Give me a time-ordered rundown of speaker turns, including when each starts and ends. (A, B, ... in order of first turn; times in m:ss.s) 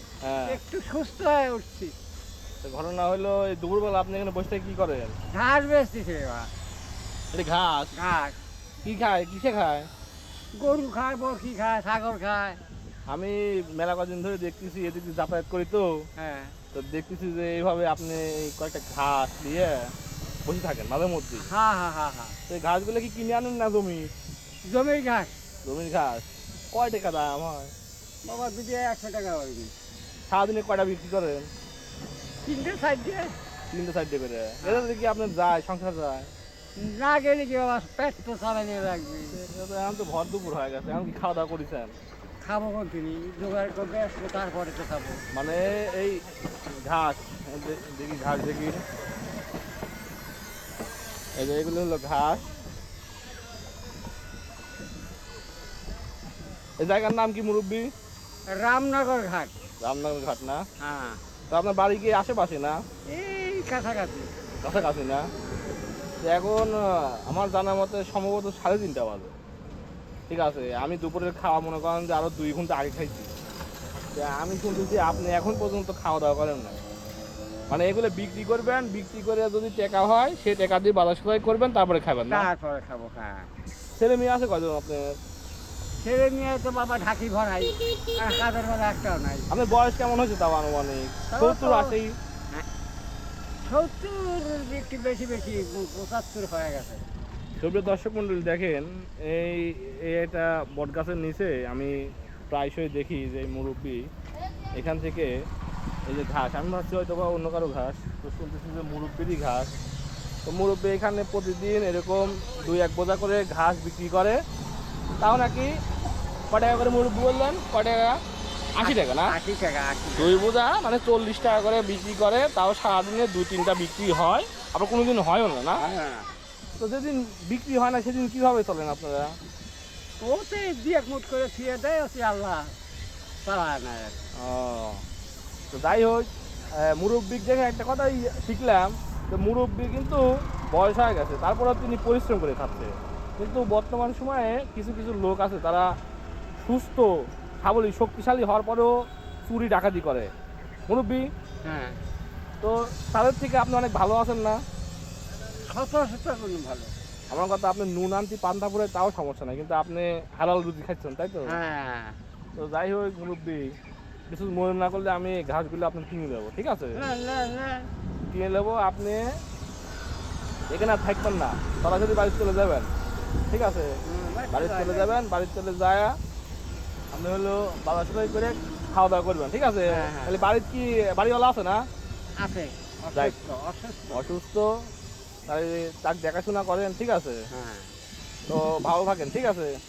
0:00.2-0:00.6 A
0:00.5-0:01.9 B
0:02.6-0:05.1 A
0:05.3-0:06.5 B
0:07.3-0:08.0 A
0:07.9-0:08.4 B
0:08.8-0:09.9 A
0:10.6-0:12.6 B
0:13.1-0:15.9 A
0:16.2-0:16.6 B
0:16.7-0:19.9 A
0:20.4-0:21.5 A
0:21.4-0:22.4 B
0:22.5-0:24.1 A
0:24.7-0:25.4 B
0:25.6-0:27.7 A
0:28.2-0:29.8 B
0:30.3-0:31.5 A
0:32.4-0:33.3 B
0:33.7-0:36.3 A
0:34.6-0:34.9 B
0:36.8-0:39.4 B
0:39.3-0:41.9 A
0:42.4-0:45.2 B
0:45.3-0:46.2 A
0:46.9-0:48.8 A
0:51.4-0:52.4 A
0:56.8-0:57.9 A
0:58.5-0:59.5 B
0:59.8-1:00.6 A
1:00.8-1:01.2 B
1:01.5-1:02.8 A
1:03.1-1:04.3 B
1:04.6-1:05.3 A
1:05.4-1:05.7 B
1:06.2-1:09.3 A
1:10.3-1:13.3 A
1:14.1-1:16.8 A
1:17.7-1:22.5 A
1:22.3-1:23.5 B
1:24.0-1:25.1 A
1:26.0-1:29.5 B
1:29.5-1:32.1 A
1:31.3-1:32.0 B
1:33.6-1:37.0 B
1:37.6-1:41.9 A
1:42.5-1:44.0 A
1:44.7-1:45.3 A
1:46.1-1:49.7 A
1:50.4-1:54.4 A
1:55.2-1:55.7 A
1:56.5-1:58.2 A
1:58.8-1:59.4 A
1:58.8-2:00.4 B
2:00.2-2:05.8 A
2:05.8-2:06.3 B
2:06.8-2:09.3 A
2:10.2-2:12.7 B
2:13.4-2:14.2 B
2:14.4-2:15.0 A
2:15.7-2:16.3 A
2:16.8-2:20.2 A
2:20.7-2:25.9 A
2:26.6-2:27.1 A
2:27.6-2:28.9 A
2:29.5-2:30.3 A
2:30.9-2:31.2 A
2:31.6-2:32.0 B
2:32.6-2:34.6 A
2:35.7-2:36.9 B
2:37.3-2:41.6 A
2:41.4-2:42.2 B
2:42.6-2:43.7 A
2:44.3-2:47.0 A
2:47.0-2:47.9 B
2:48.3-2:49.2 A
2:50.7-2:52.9 A
2:53.5-2:54.0 A
2:54.0-2:55.1 B
2:54.5-2:56.1 A
2:57.1-3:01.8 A
2:59.9-3:00.5 B
3:02.4-3:04.2 B
3:04.1-3:04.7 A
3:05.5-3:07.4 A
3:07.5-3:07.9 B
3:08.5-3:09.7 A